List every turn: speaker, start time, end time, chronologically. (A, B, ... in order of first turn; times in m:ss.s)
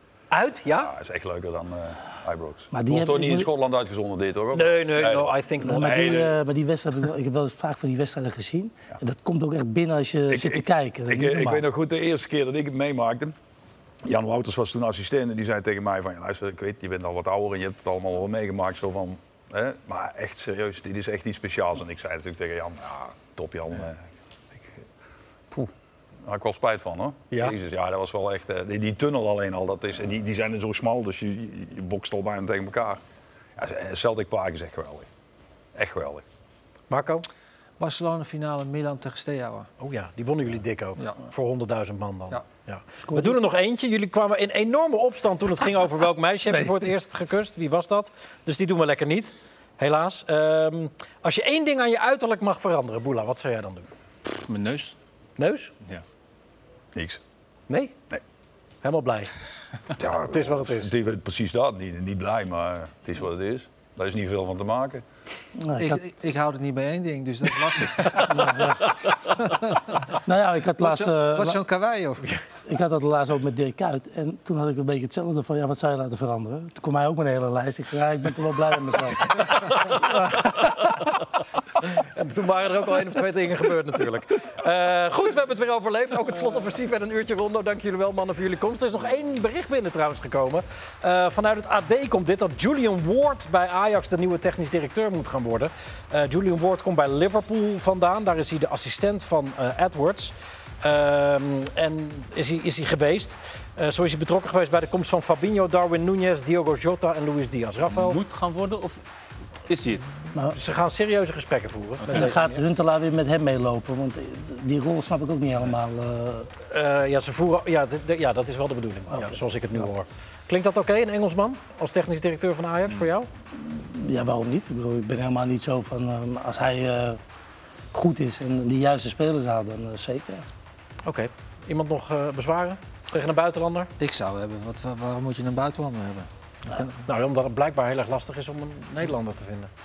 0:00.3-0:00.9 A
0:00.7-0:06.3 B
0:02.7-0:03.5 C
0:04.5-0:06.3 A
0:05.6-0:11.7 C
0:10.3-0:13.4 B
0:14.0-0:24.8 B
0:26.2-0:33.0 B
0:33.6-0:35.1 B
0:35.8-0:36.2 B
0:36.9-0:37.3 A
0:37.8-0:39.7 D
0:39.8-0:53.9 A
0:43.0-0:43.4 C
0:54.5-0:55.0 E
0:55.4-0:55.7 A
0:57.0-0:57.2 B
0:57.7-0:58.0 A
0:58.8-0:59.3 A
1:00.0-1:05.0 B
1:00.2-1:00.9 A
1:05.6-1:06.0 C
1:05.8-1:08.7 D
1:08.2-1:08.9 C
1:09.4-1:10.2 D
1:10.2-1:11.6 C
1:10.8-1:12.2 D
1:12.7-1:20.5 C
1:19.7-1:21.0 A
1:21.8-1:48.2 A
1:47.9-1:49.0 E
1:49.7-1:50.1 E
1:50.5-1:52.5 A
1:52.0-1:52.5 E
1:52.1-1:56.5 C
1:56.7-2:03.3 A
1:59.1-1:59.4 C
2:03.5-2:07.2 C
2:07.9-2:10.4 C
2:11.0-2:13.9 A
2:14.0-2:17.0 D
2:17.0-2:19.7 A